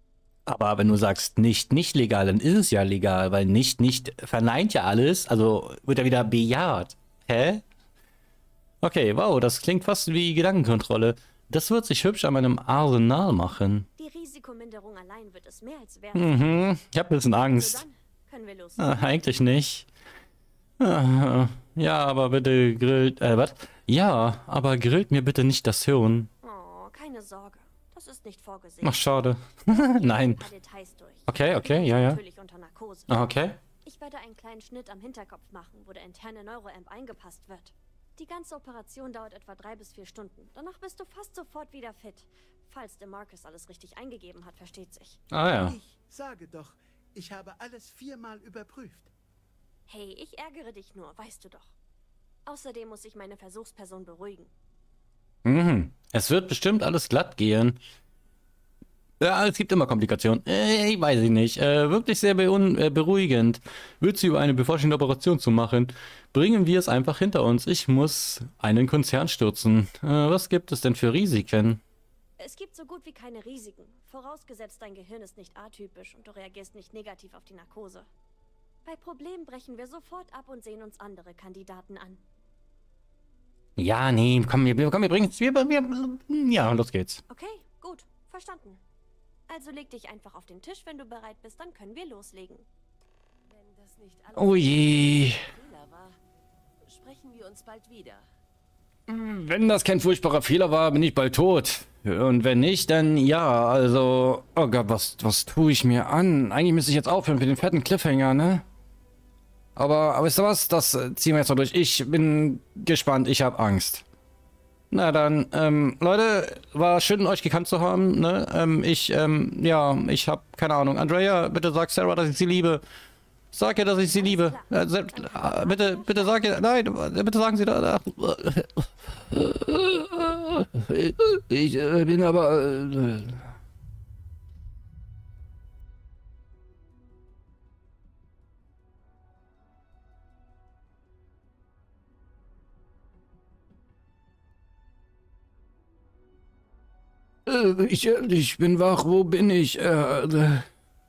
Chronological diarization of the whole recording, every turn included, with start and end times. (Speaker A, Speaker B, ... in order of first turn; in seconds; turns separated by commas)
Speaker A: 0.5-7.6, Speaker A: 8.8-13.9, Speaker B: 14.0-16.7, Speaker A: 16.1-17.8, Speaker B: 17.5-19.0, Speaker A: 18.8-19.9, Speaker A: 20.8-26.3, Speaker B: 26.4-29.1, Speaker A: 28.8-30.4, Speaker B: 29.6-33.1, Speaker A: 31.3-32.2, Speaker A: 33.1-33.6, Speaker B: 33.8-45.2, Speaker A: 45.3-45.8, Speaker C: 45.5-49.1, Speaker B: 49.9-51.7, Speaker B: 52.5-54.5, Speaker A: 55.4-57.8, Speaker A: 59.2-71.8, Speaker B: 72.4-78.1, Speaker B: 78.8-82.2, Speaker A: 83.8-87.2, Speaker B: 87.3-88.8, Speaker B: 89.5-92.7, Speaker D: 93.4-96.2, Speaker A: 94.3-95.4, Speaker D: 96.8-98.3, Speaker A: 99.1-108.6, Speaker A: 109.8-114.0, Speaker A: 114.9-122.8, Speaker A: 123.5-133.4, Speaker B: 124.1-126.5, Speaker A: 147.4-150.7